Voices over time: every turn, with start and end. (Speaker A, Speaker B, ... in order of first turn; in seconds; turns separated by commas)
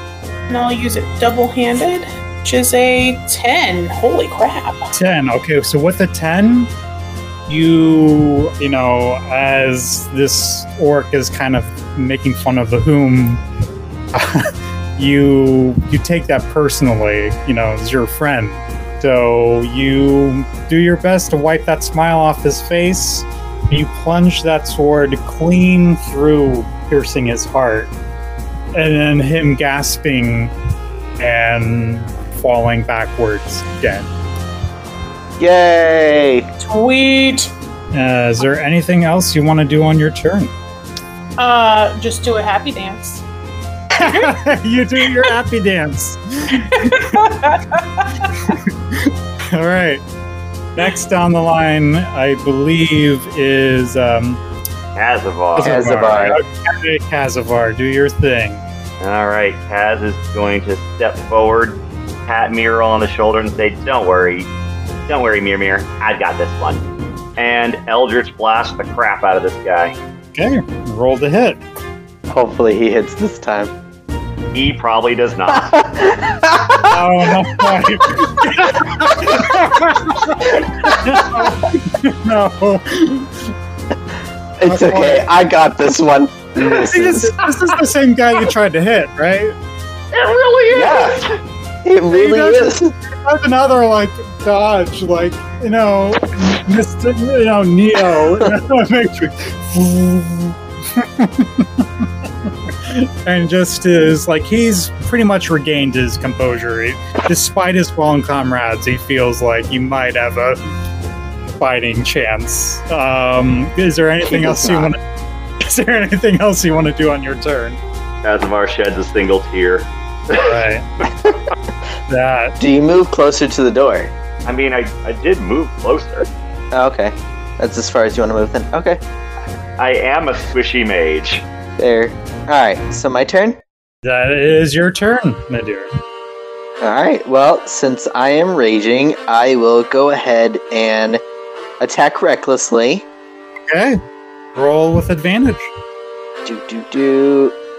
Speaker A: 0.5-4.9, Speaker B: 5.0-6.7, Speaker B: 7.5-13.4, Speaker B: 14.1-27.9, Speaker B: 28.7-30.5, Speaker B: 31.2-34.1, Speaker C: 35.4-36.5, Speaker A: 36.6-37.5, Speaker B: 37.9-40.5, Speaker A: 41.4-43.2, Speaker B: 44.0-47.2, Speaker A: 44.0-44.4, Speaker A: 45.1-45.3, Speaker A: 46.7-48.3, Speaker B: 48.5-50.0, Speaker B: 50.8-54.4, Speaker D: 55.0-56.4, Speaker B: 55.6-58.6, Speaker C: 55.6-56.4, Speaker D: 59.0-64.5, Speaker D: 65.1-66.8, Speaker D: 67.4-70.0, Speaker B: 70.3-71.6, Speaker C: 72.3-73.7, Speaker D: 74.5-75.8, Speaker C: 75.5-76.9, Speaker B: 76.9-83.4, Speaker C: 80.5-81.6, Speaker C: 84.6-87.3, Speaker B: 84.7-85.3, Speaker B: 86.6-89.5, Speaker D: 90.1-91.4, Speaker C: 90.7-91.2, Speaker C: 91.8-92.9, Speaker B: 92.1-110.6, Speaker C: 98.1-98.5, Speaker B: 111.5-115.0, Speaker C: 114.2-114.9, Speaker B: 115.6-117.8, Speaker D: 118.2-120.7, Speaker B: 120.3-120.8, Speaker B: 122.1-122.6, Speaker C: 122.6-124.1, Speaker D: 124.5-126.3, Speaker C: 126.7-129.0, Speaker D: 129.8-131.4, Speaker C: 131.8-133.6, Speaker B: 134.0-135.9, Speaker C: 136.8-141.2, Speaker C: 141.8-143.1, Speaker B: 143.7-144.0, Speaker B: 144.6-145.7, Speaker C: 146.4-147.6